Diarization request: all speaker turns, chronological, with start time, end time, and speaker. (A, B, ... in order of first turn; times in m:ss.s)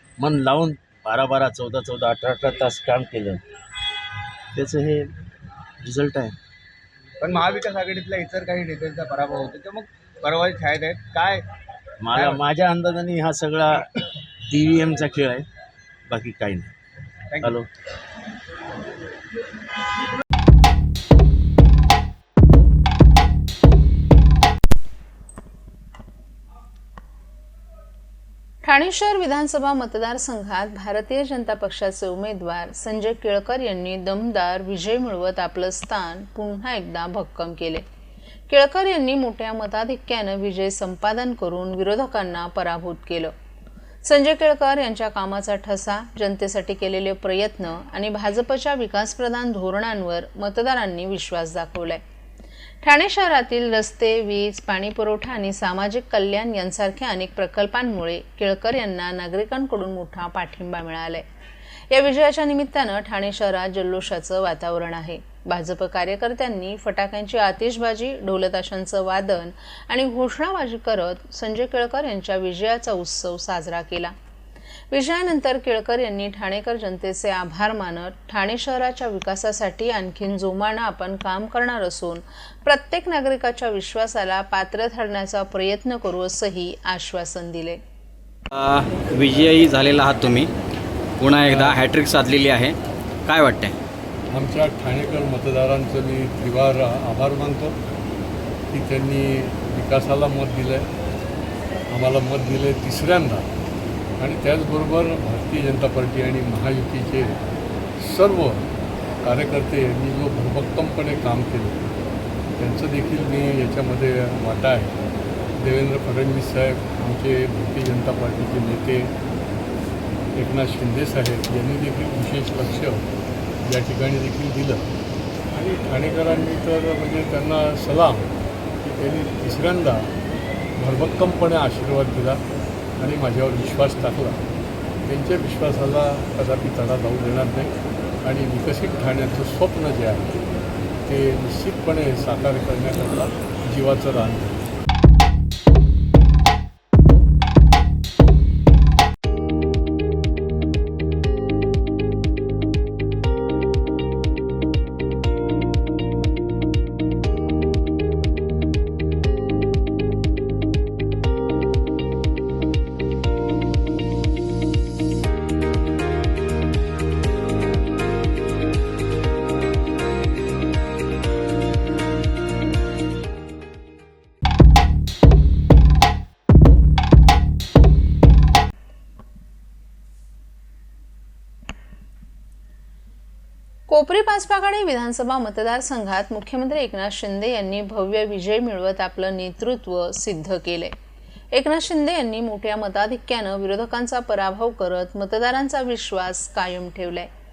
0:00.2-0:03.4 A
0:04.5-0:05.1 A
0:05.8-0:06.4 A
0:07.2-0:11.4 B
0:12.0-0:15.5 A
0:12.1-0:12.4 B
0:16.1-0:16.7 A
0:17.4-0:17.7 A
0:28.6-0:37.8 C
0:38.5-0:43.3 C
0:44.0-0:52.0 C
0:52.8-1:01.2 C
1:01.9-1:14.1 C
1:14.9-1:27.8 C
1:28.5-1:30.5 D
1:31.2-1:33.7 D
1:31.4-1:31.8 E
1:34.3-1:37.8 E
1:38.7-1:40.8 E
1:41.9-1:43.5 E
1:44.2-1:47.4 E
1:48.0-1:48.6 E
1:49.2-1:51.8 E
1:52.6-1:54.9 E
1:55.6-1:59.1 E
2:00.4-2:03.0 E
2:03.6-2:04.8 E
2:05.5-2:10.1 E
2:10.8-2:12.4 E
2:13.0-2:14.4 E
2:15.0-2:17.7 E
2:18.2-2:20.4 E
2:21.0-2:24.6 E
3:03.9-3:10.9 C
3:11.5-3:17.3 C